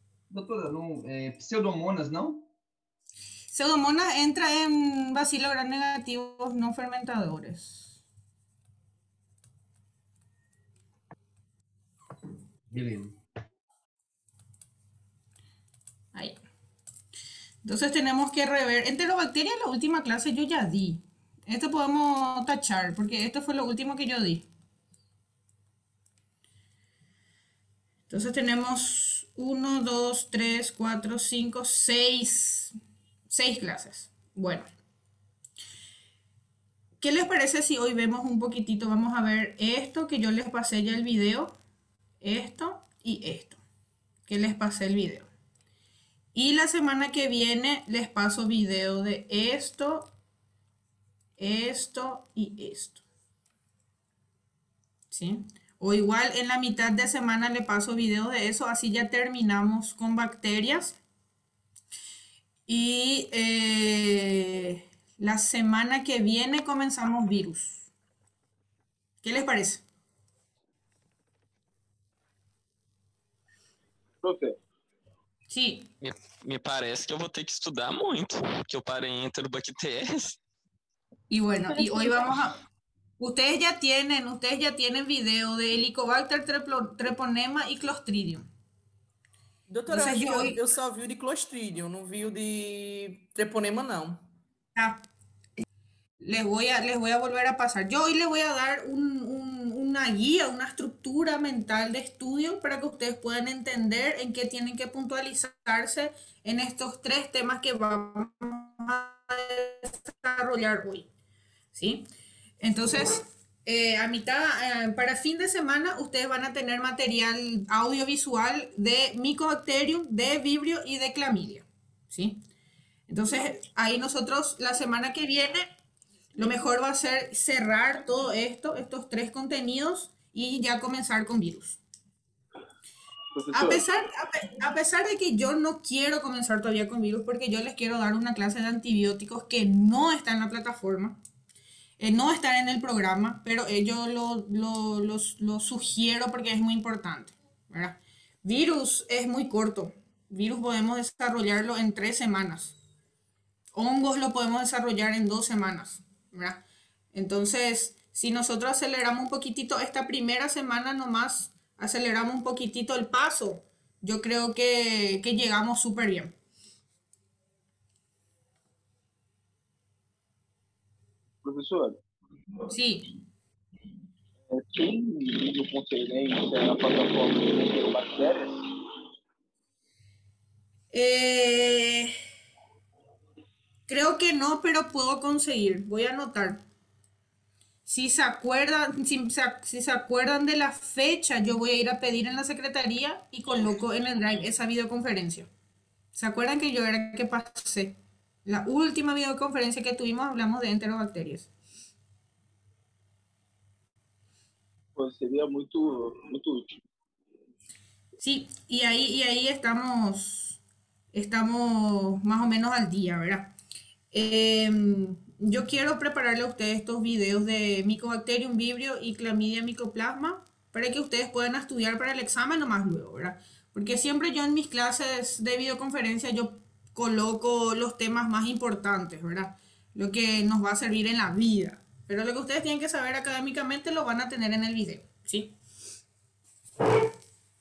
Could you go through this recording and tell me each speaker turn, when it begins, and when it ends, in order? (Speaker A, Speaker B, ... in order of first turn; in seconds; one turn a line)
Speaker A: 0.3-2.5
Speaker B: 3.5-8.0
Speaker A: 12.7-13.1
Speaker B: 17.6-24.4
Speaker B: 28.1-32.7
Speaker B: 33.3-34.7
Speaker B: 37.0-41.5
Speaker B: 42.2-43.6
Speaker B: 44.3-45.3
Speaker B: 46.3-50.1
Speaker B: 51.4-53.0
Speaker B: 55.1-61.0
Speaker B: 62.7-67.9
Speaker B: 69.2-69.8
Speaker C: 74.2-74.5
Speaker B: 75.5-75.9
Speaker D: 76.0-80.4
Speaker B: 81.3-82.6
Speaker B: 83.2-88.5
Speaker E: 89.7-94.3
Speaker B: 89.9-90.6
Speaker B: 94.8-95.0
Speaker B: 96.2-111.1
Speaker B: 111.7-112.1
Speaker B: 112.6-122.4
Speaker B: 123.1-125.7
Speaker B: 126.4-131.8
Speaker C: 133.3-133.8
Speaker B: 133.5-141.2
Speaker B: 142.0-152.8
Speaker B: 153.7-156.6
Speaker B: 157.1-166.3
Speaker C: 171.4-172.0
Speaker B: 172.7-173.1
Speaker C: 174.5-178.6
Speaker B: 180.9-182.1
Speaker B: 183.9-186.6
Speaker B: 187.8-195.5
Speaker B: 196.2-201.5
Speaker C: 204.9-206.7
Speaker B: 208.2-210.6
Speaker B: 211.1-213.5
Speaker B: 214.1-235.5